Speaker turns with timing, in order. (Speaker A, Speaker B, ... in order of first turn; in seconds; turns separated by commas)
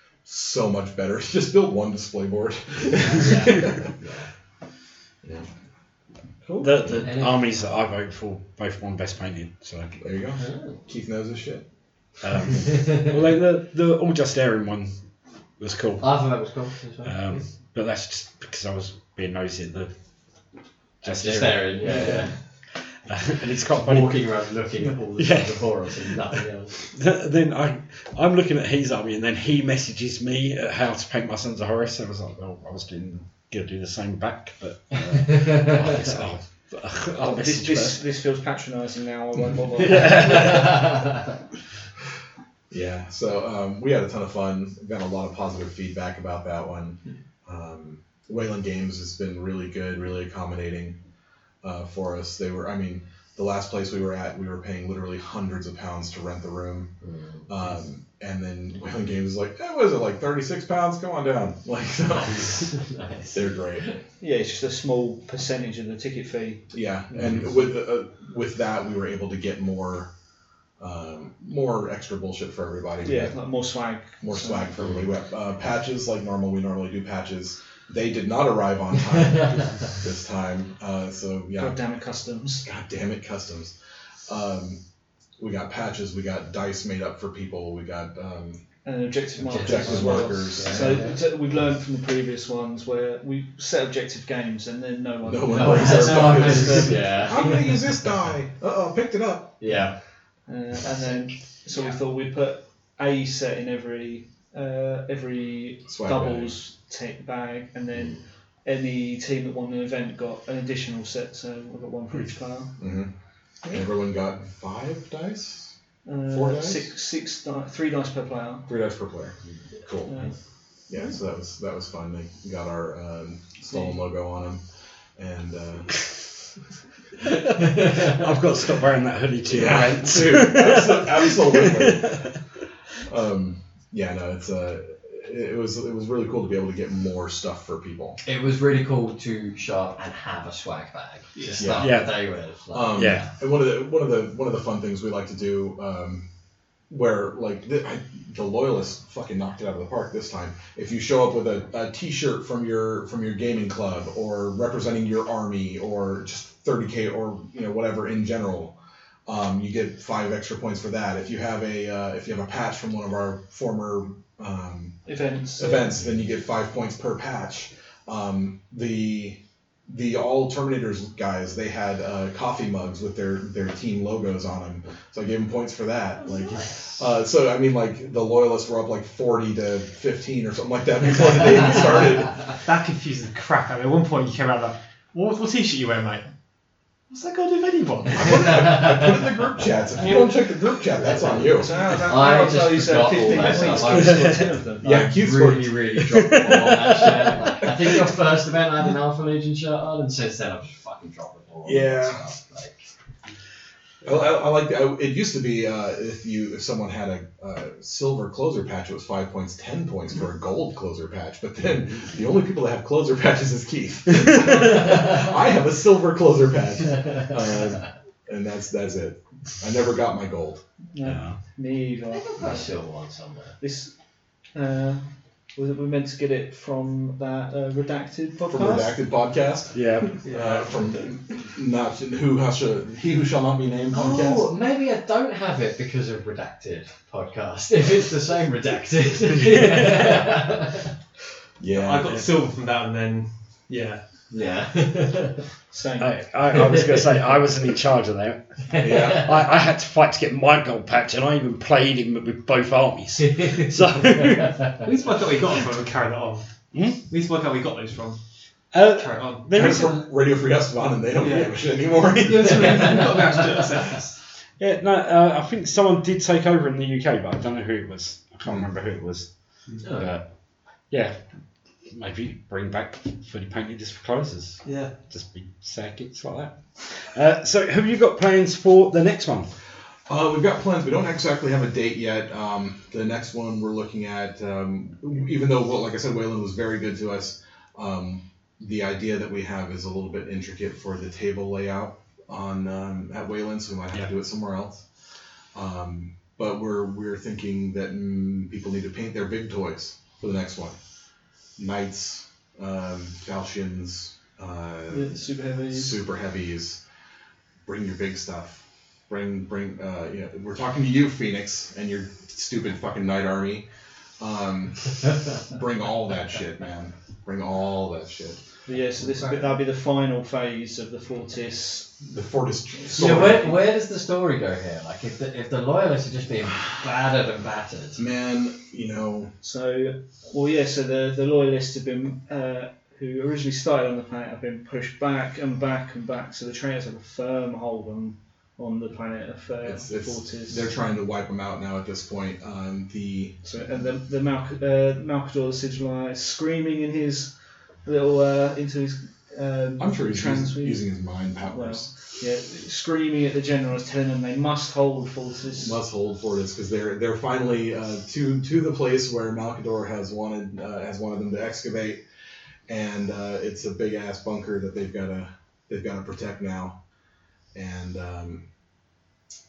Speaker A: 0.2-3.9, Speaker B: 3.0-4.3, Speaker C: 6.5-6.7, Speaker D: 6.6-10.0, Speaker B: 7.0-7.5, Speaker A: 10.0-11.7, Speaker B: 10.3-10.8, Speaker D: 12.2-14.9, Speaker B: 12.7-13.1, Speaker D: 15.6-16.3, Speaker B: 16.0-17.4, Speaker D: 17.0-19.9, Speaker D: 21.0-24.3, Speaker B: 21.0-22.3, Speaker B: 23.7-26.8, Speaker D: 25.2-26.2, Speaker D: 26.8-38.0, Speaker B: 35.3-35.9, Speaker C: 37.2-40.8, Speaker D: 39.8-41.0, Speaker B: 40.2-40.8, Speaker A: 42.7-51.0, Speaker A: 51.6-56.9, Speaker B: 57.0-57.5, Speaker A: 57.5-62.7, Speaker B: 62.3-64.0, Speaker A: 63.3-63.9, Speaker C: 64.2-66.7, Speaker A: 66.7-70.1, Speaker A: 70.8-73.4, Speaker C: 73.0-74.8, Speaker A: 74.2-81.8, Speaker B: 79.1-79.8, Speaker C: 81.5-82.7, Speaker A: 82.6-83.7, Speaker A: 84.3-84.8, Speaker A: 85.4-88.6, Speaker C: 88.8-97.2, Speaker B: 89.4-91.2, Speaker A: 89.5-91.0, Speaker A: 95.2-99.8, Speaker B: 95.5-97.9, Speaker B: 99.6-99.9, Speaker C: 100.5-112.7, Speaker A: 105.8-106.5, Speaker A: 112.8-113.1, Speaker A: 113.7-115.7, Speaker C: 116.0-118.7, Speaker A: 116.3-116.9, Speaker A: 118.7-120.2, Speaker C: 120.1-120.3, Speaker A: 120.9-124.6, Speaker A: 125.2-126.0, Speaker D: 127.2-132.4, Speaker A: 129.4-132.3, Speaker A: 133.0-138.2, Speaker B: 138.2-143.3, Speaker E: 141.3-141.7, Speaker A: 141.6-142.0, Speaker D: 141.8-142.2, Speaker A: 142.7-146.2, Speaker D: 142.9-143.3, Speaker A: 146.9-165.0, Speaker C: 165.1-165.9, Speaker A: 165.6-182.5, Speaker B: 176.2-177.0, Speaker E: 182.6-186.3, Speaker E: 187.1-188.8, Speaker A: 188.1-191.8, Speaker B: 190.9-202.8, Speaker C: 191.3-195.0, Speaker D: 193.9-194.5, Speaker A: 194.8-196.0, Speaker D: 196.2-197.1, Speaker A: 201.6-202.3, Speaker A: 204.0-220.6, Speaker C: 220.9-222.7, Speaker D: 221.0-221.4, Speaker B: 222.1-223.6, Speaker C: 223.6-223.9, Speaker C: 224.5-229.0, Speaker A: 228.5-234.5, Speaker D: 229.7-230.2, Speaker E: 230.2-231.0, Speaker B: 233.9-240.9, Speaker D: 239.3-240.4, Speaker A: 241.6-242.2, Speaker E: 241.7-244.0, Speaker B: 244.3-245.4, Speaker C: 245.7-246.3, Speaker D: 246.0-254.8, Speaker B: 246.5-247.0, Speaker B: 248.7-249.3, Speaker A: 248.8-249.3, Speaker B: 253.2-254.7, Speaker E: 254.8-256.4, Speaker D: 256.7-257.0, Speaker E: 257.1-258.2, Speaker D: 258.7-260.0, Speaker E: 258.8-259.5, Speaker A: 259.5-263.0, Speaker E: 261.1-264.1, Speaker D: 264.6-269.3, Speaker B: 269.8-270.2, Speaker D: 269.9-270.2, Speaker D: 270.9-271.1, Speaker D: 271.9-279.5, Speaker E: 274.6-274.9, Speaker A: 280.1-294.9, Speaker A: 295.5-300.8, Speaker A: 301.6-306.8, Speaker C: 304.9-306.0, Speaker A: 307.6-313.6, Speaker A: 314.2-318.4, Speaker C: 318.6-322.0, Speaker B: 319.0-319.5, Speaker A: 322.0-323.6, Speaker B: 322.9-328.0, Speaker A: 328.0-329.3, Speaker C: 329.4-340.7, Speaker A: 339.6-343.4, Speaker C: 343.4-347.3, Speaker C: 347.8-350.9, Speaker A: 349.8-351.9, Speaker C: 351.5-355.8, Speaker A: 355.6-362.0, Speaker A: 362.7-366.8, Speaker A: 367.5-368.4